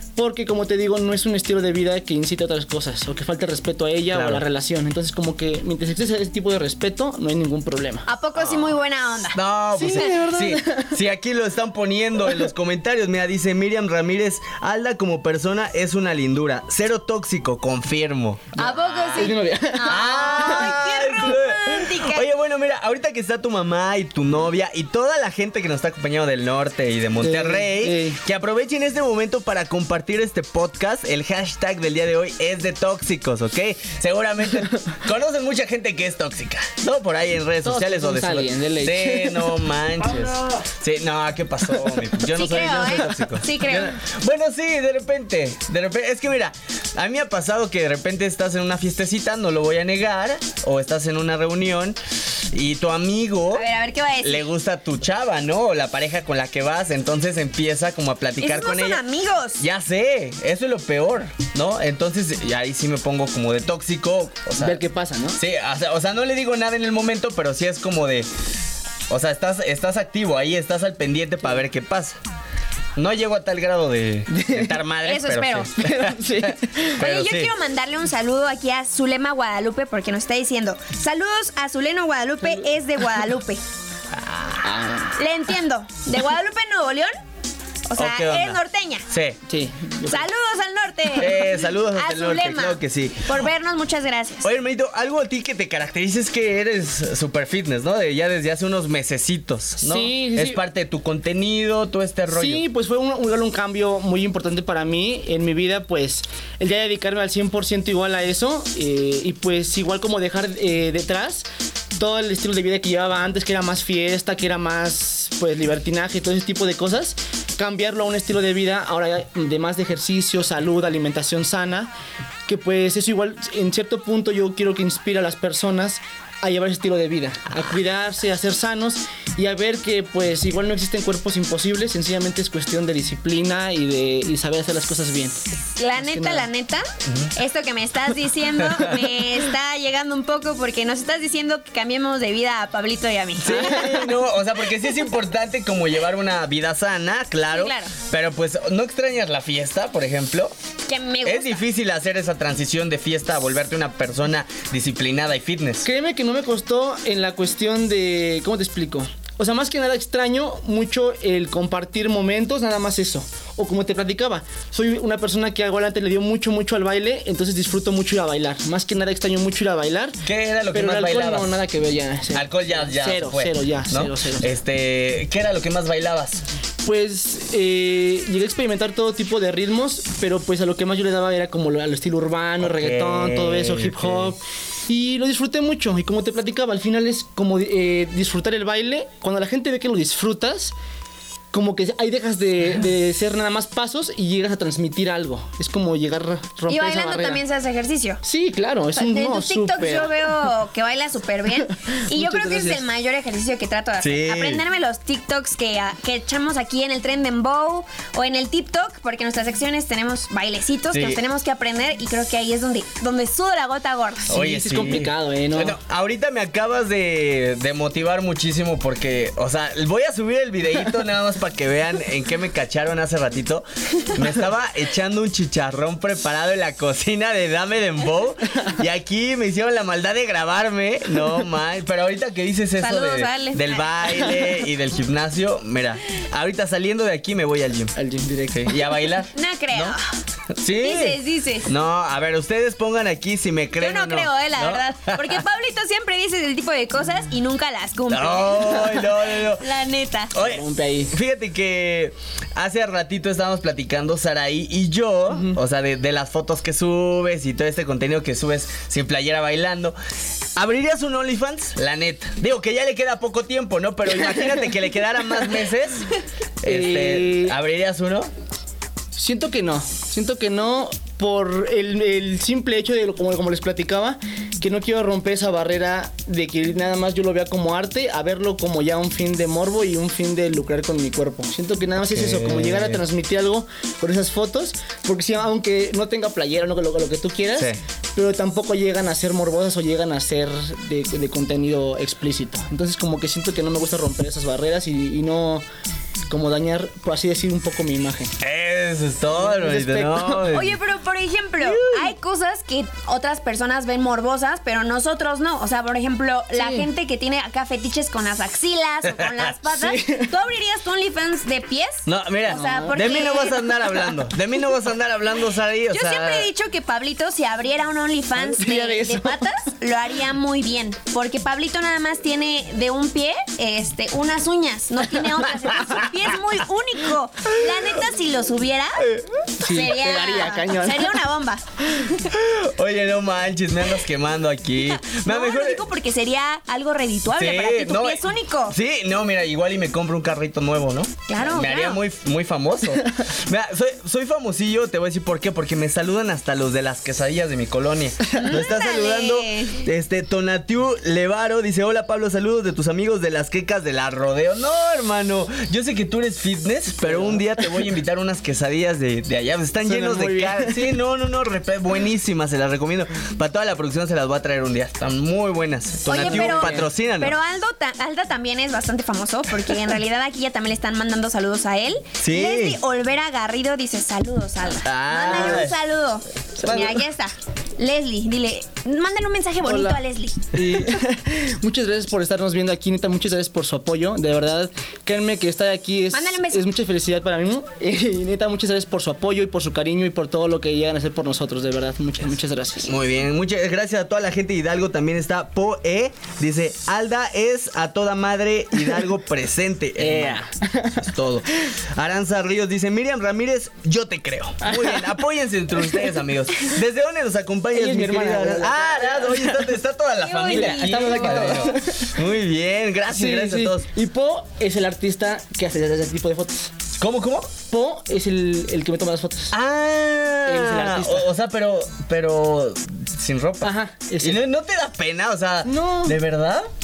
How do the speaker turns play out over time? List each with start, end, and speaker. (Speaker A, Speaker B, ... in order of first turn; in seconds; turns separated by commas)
Speaker A: 0.1-8.0, Speaker B: 4.1-4.4, Speaker C: 8.1-10.0, Speaker B: 8.3-8.8, Speaker B: 9.3-19.3, Speaker A: 9.7-11.0, Speaker A: 18.6-20.0, Speaker C: 18.6-22.3, Speaker B: 19.9-52.0, Speaker A: 27.2-28.2, Speaker A: 37.6-39.5, Speaker C: 42.3-44.0, Speaker B: 52.5-53.6, Speaker C: 53.5-54.5, Speaker B: 54.2-59.0, Speaker C: 58.4-59.6, Speaker B: 59.6-64.8, Speaker A: 64.6-65.4, Speaker B: 65.3-68.3, Speaker B: 69.1-72.2, Speaker B: 73.0-77.5, Speaker A: 74.3-74.8, Speaker C: 75.0-75.7, Speaker A: 75.8-77.0, Speaker C: 77.0-83.6, Speaker B: 84.1-84.7, Speaker A: 84.6-85.2, Speaker C: 85.2-87.1, Speaker C: 87.9-89.1, Speaker B: 88.0-89.4, Speaker A: 89.5-90.3, Speaker C: 90.1-94.5, Speaker B: 91.1-93.5, Speaker B: 94.4-102.6, Speaker A: 99.8-100.6, Speaker A: 102.3-121.9, Speaker A: 122.5-135.4, Speaker C: 135.8-144.0, Speaker A: 135.9-136.5, Speaker B: 137.1-137.3, Speaker B: 138.6-139.0, Speaker B: 143.4-150.5, Speaker A: 143.5-144.1, Speaker C: 147.5-147.9, Speaker C: 150.9-151.6, Speaker B: 151.2-155.8, Speaker A: 155.8-170.2, Speaker B: 170.2-171.5, Speaker A: 170.7-174.5, Speaker B: 172.3-176.4, Speaker A: 176.8-190.7, Speaker B: 182.6-184.3, Speaker A: 191.5-197.4, Speaker C: 196.7-198.2, Speaker A: 198.2-200.5, Speaker C: 198.9-214.3, Speaker A: 201.8-202.8, Speaker B: 204.0-204.6, Speaker B: 210.9-211.2, Speaker A: 214.3-215.8, Speaker B: 214.3-237.9, Speaker C: 232.8-234.3, Speaker A: 237.9-239.0, Speaker B: 238.5-240.0, Speaker C: 239.3-240.1, Speaker B: 240.6-245.4, Speaker C: 240.8-241.7, Speaker C: 243.8-250.3, Speaker B: 248.1-249.7, Speaker B: 250.3-259.9, Speaker A: 250.3-251.1, Speaker B: 260.6-266.1, Speaker A: 264.2-264.7, Speaker B: 266.6-268.3, Speaker A: 266.6-267.6, Speaker A: 269.1-295.6, Speaker B: 282.1-283.0, Speaker A: 296.3-298.3, Speaker B: 298.4-300.8, Speaker A: 299.4-300.5, Speaker C: 300.5-314.0, Speaker A: 301.6-302.1, Speaker A: 306.5-306.9, Speaker B: 309.0-309.5, Speaker A: 309.7-310.3, Speaker B: 312.1-316.5, Speaker A: 312.5-313.2, Speaker C: 315.9-329.1, Speaker A: 318.4-319.5, Speaker B: 329.0-329.3, Speaker A: 329.6-331.2, Speaker C: 329.6-332.2, Speaker B: 332.2-335.8, Speaker C: 334.8-338.8, Speaker B: 337.3-367.4, Speaker C: 341.3-342.0, Speaker C: 348.3-349.8, Speaker A: 357.0-357.5, Speaker A: 359.8-360.9, Speaker C: 366.1-380.5, Speaker A: 366.1-366.9, Speaker B: 372.2-372.8, Speaker B: 374.8-375.8, Speaker A: 375.3-375.6, Speaker A: 376.6-376.9, Speaker A: 379.6-380.0, Speaker A: 380.5-392.9, Speaker C: 386.1-386.6, Speaker B: 392.8-400.4, Speaker A: 400.0-401.1, Speaker B: 401.0-413.9, Speaker A: 404.6-405.1, Speaker A: 405.8-406.8, Speaker A: 407.7-409.8, Speaker C: 410.2-411.7, Speaker A: 410.5-412.2, Speaker A: 413.1-416.7, Speaker B: 417.0-417.6, Speaker A: 417.7-419.5, Speaker B: 419.5-426.7, Speaker A: 420.4-421.3, Speaker A: 423.6-424.4, Speaker A: 425.6-426.2